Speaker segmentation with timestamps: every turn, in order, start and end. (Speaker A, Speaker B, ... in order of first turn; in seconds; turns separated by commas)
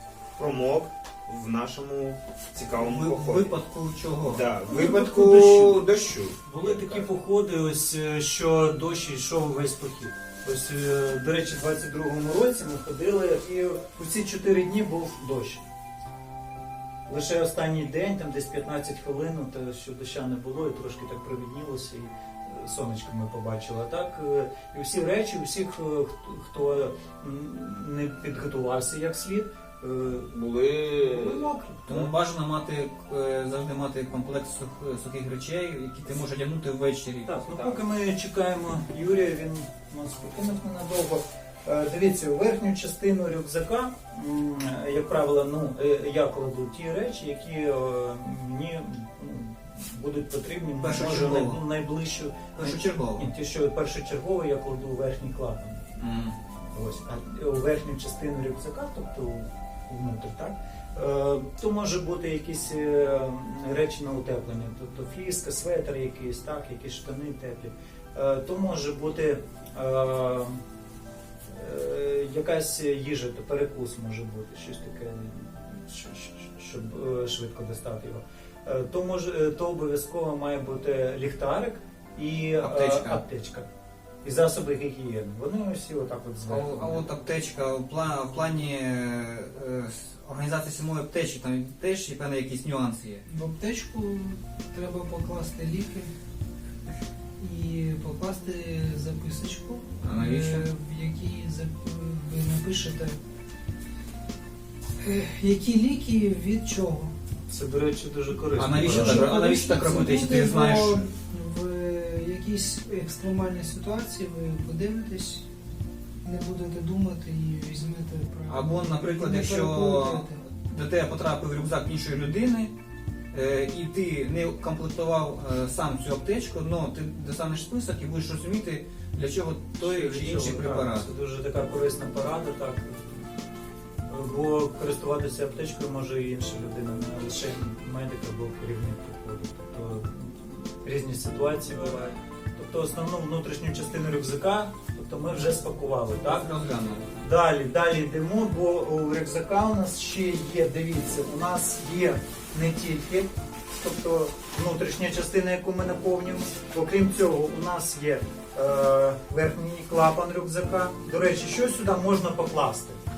Speaker A: 0.4-3.5, Speaker B: 2.8-4.5, Speaker A: 4.2-7.1, Speaker C: 4.7-5.8, Speaker C: 6.4-15.6, Speaker C: 17.1-30.3, Speaker A: 30.3-32.1, Speaker C: 31.0-31.9, Speaker B: 31.9-37.4, Speaker C: 37.2-55.8, Speaker B: 50.8-51.6, Speaker B: 52.5-53.3, Speaker B: 56.0-56.4, Speaker C: 56.7-70.6, Speaker C: 71.5-83.7, Speaker B: 82.6-83.2, Speaker C: 84.2-87.1, Speaker B: 86.5-93.2, Speaker D: 93.3-96.1, Speaker D: 97.4-103.2, Speaker B: 100.0-100.7, Speaker D: 105.0-107.1, Speaker C: 107.5-109.3, Speaker B: 108.5-111.1, Speaker D: 108.8-115.5, Speaker D: 116.2-120.4, Speaker B: 118.5-122.7, Speaker B: 123.3-131.1, Speaker C: 129.8-133.3, Speaker C: 134.1-142.0, Speaker C: 142.5-146.5, Speaker B: 146.2-147.2, Speaker C: 147.2-163.0